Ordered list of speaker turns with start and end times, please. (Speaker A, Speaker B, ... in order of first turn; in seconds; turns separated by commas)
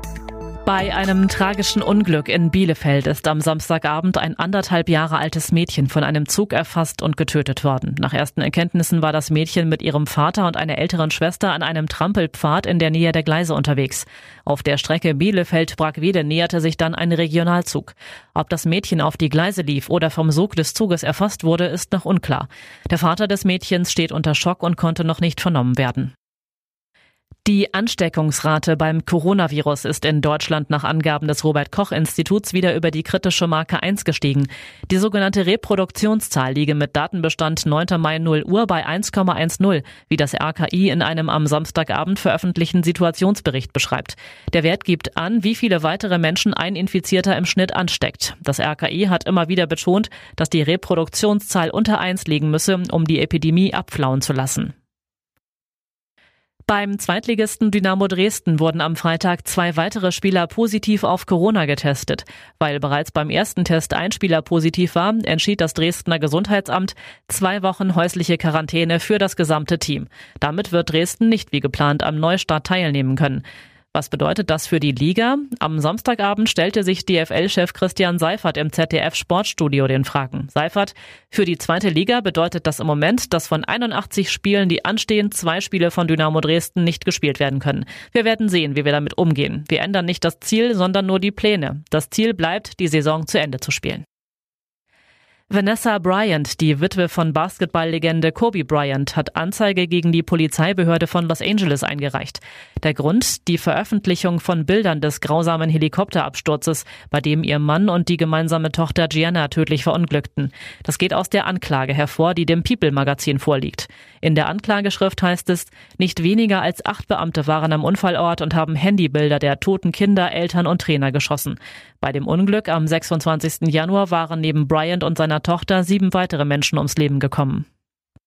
Speaker A: 0.7-26.1, Speaker A: 27.4-54.7, Speaker A: 56.7-94.0, Speaker A: 95.5-127.7